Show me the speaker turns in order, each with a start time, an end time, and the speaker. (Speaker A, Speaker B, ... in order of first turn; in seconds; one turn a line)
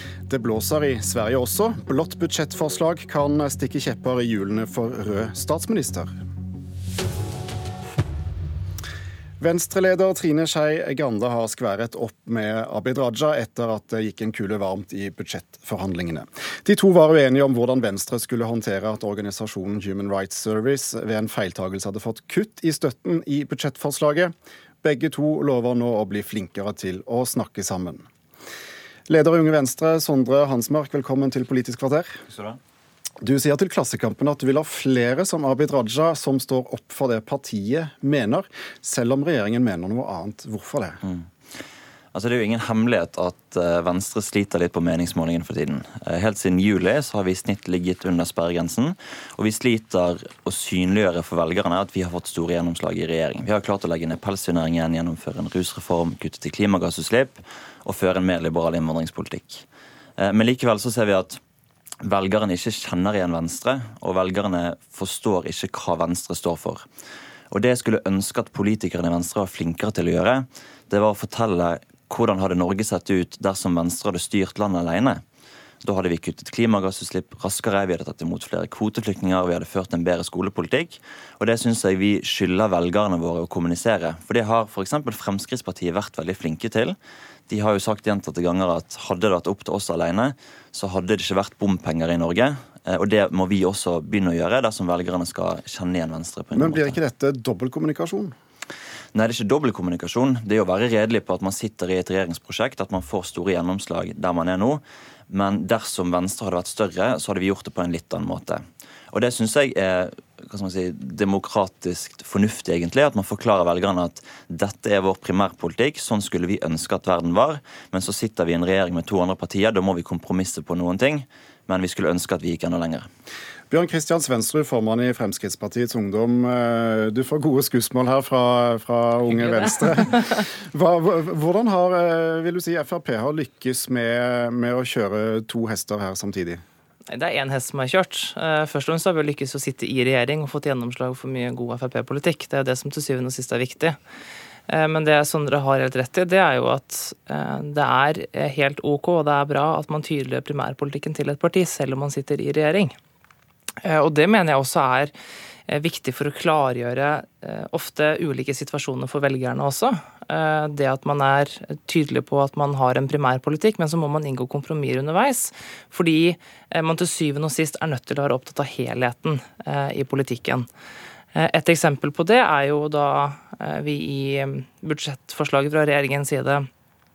Speaker A: 0.3-6.1
Speaker A: 9.4-28.1
Speaker A: 29.1-32.2
Speaker B: 32.3-32.6
Speaker A: 33.2-41.0
Speaker B: 42.1-59.6
Speaker B: 60.2-61.4
Speaker B: 62.0-66.8
Speaker B: 67.5-75.2
Speaker B: 75.8-87.0
Speaker B: 87.5-97.0
Speaker A: 96.5-98.3
Speaker B: 99.1-123.1
Speaker A: 123.7-136.6
Speaker C: 129.3-129.9
Speaker C: 137.1-144.0
Speaker C: 144.7-152.9
Speaker C: 153.8-155.1
Speaker C: 155.7-170.7
Speaker C: 171.3-176.7